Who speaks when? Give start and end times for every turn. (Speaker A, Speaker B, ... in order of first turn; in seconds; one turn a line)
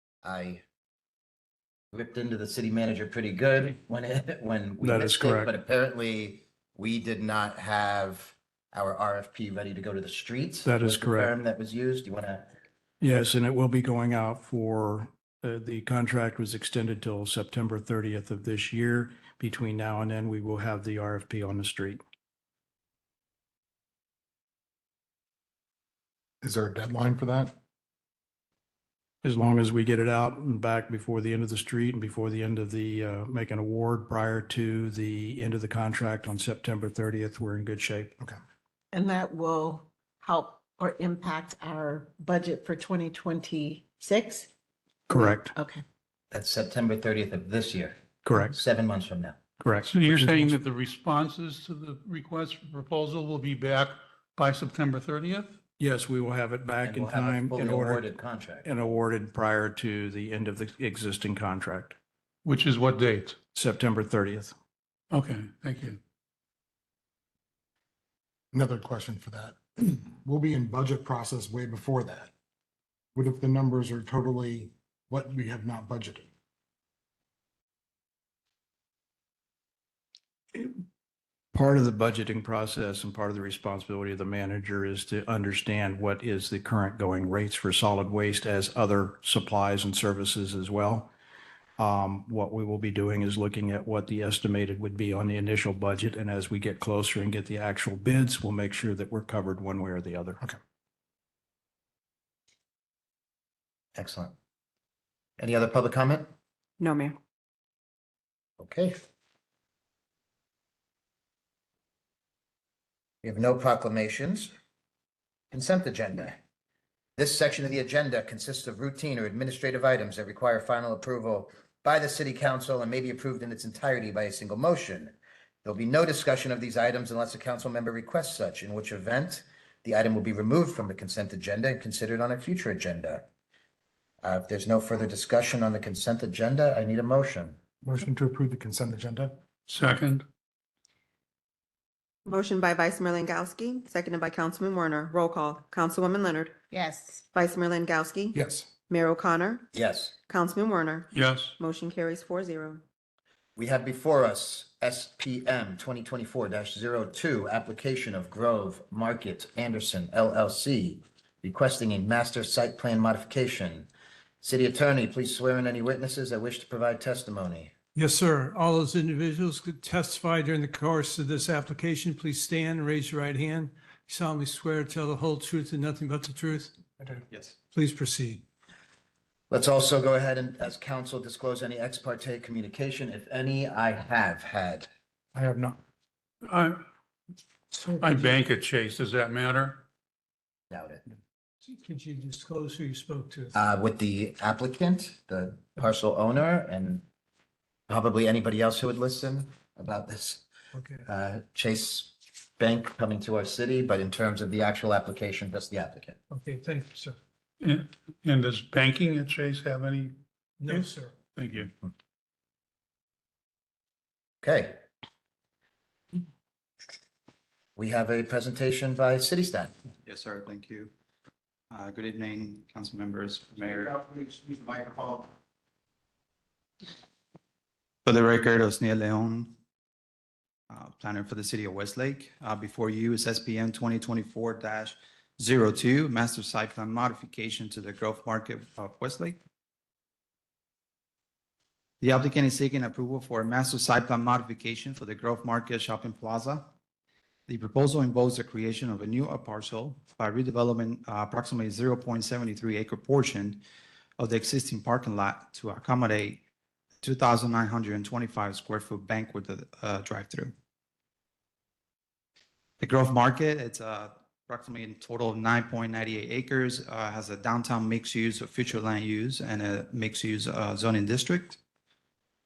Speaker A: 0.2-0.6
Speaker A: 1.9-12.5
Speaker B: 4.8-5.5
Speaker B: 10.6-11.3
Speaker B: 13.0-22.0
Speaker C: 26.4-27.5
Speaker B: 29.2-38.1
Speaker D: 38.9-44.5
Speaker B: 45.1-45.5
Speaker D: 45.1-45.8
Speaker A: 46.3-49.4
Speaker B: 48.2-48.6
Speaker B: 49.6-50.5
Speaker E: 49.9-55.5
Speaker B: 55.8-58.1
Speaker A: 56.8-58.7
Speaker B: 58.6-62.0
Speaker E: 62.4-63.4
Speaker B: 63.5-64.5
Speaker E: 65.1-66.0
Speaker C: 68.5-72.3
Speaker C: 73.1-76.3
Speaker B: 81.5-91.1
Speaker B: 91.8-100.4
Speaker A: 103.9-104.3
Speaker A: 105.4-106.3
Speaker F: 106.8-107.2
Speaker A: 108.6-109.0
Speaker A: 113.2-114.5
Speaker A: 115.5-116.4
Speaker A: 117.2-133.2
Speaker A: 134.2-137.6
Speaker C: 137.8-139.3
Speaker E: 139.7-140.2
Speaker F: 142.2-146.5
Speaker D: 146.7-147.2
Speaker F: 147.3-149.7
Speaker C: 148.3-148.7
Speaker A: 149.7-150.1
Speaker F: 150.3-152.8
Speaker E: 151.1-151.6
Speaker A: 153.6-163.9
Speaker A: 164.4-167.7
Speaker G: 168.0-176.7
Speaker G: 177.7-178.4
Speaker A: 179.5-184.9
Speaker C: 185.3-185.8
Speaker E: 186.4-186.8
Speaker C: 187.7-188.0
Speaker E: 188.0-189.8
Speaker A: 190.7-191.0
Speaker G: 191.7-193.5
Speaker A: 193.5-197.0
Speaker A: 197.9-200.4
Speaker G: 200.8-201.0
Speaker A: 201.1-206.2
Speaker G: 206.3-207.2
Speaker E: 207.6-210.1
Speaker G: 210.6-211.1
Speaker E: 210.7-211.7
Speaker A: 214.4-214.8
Speaker A: 217.8-219.7
Speaker H: 220.1-220.9
Speaker H: 221.7-225.3
Speaker H: 228.1-229.5
Speaker H: 230.7-239.4
Speaker H: 242.0-246.7
Speaker H: 247.5-253.6
Speaker H: 254.2-256.4
Speaker H: 257.0-260.5
Speaker H: 262.8-271.6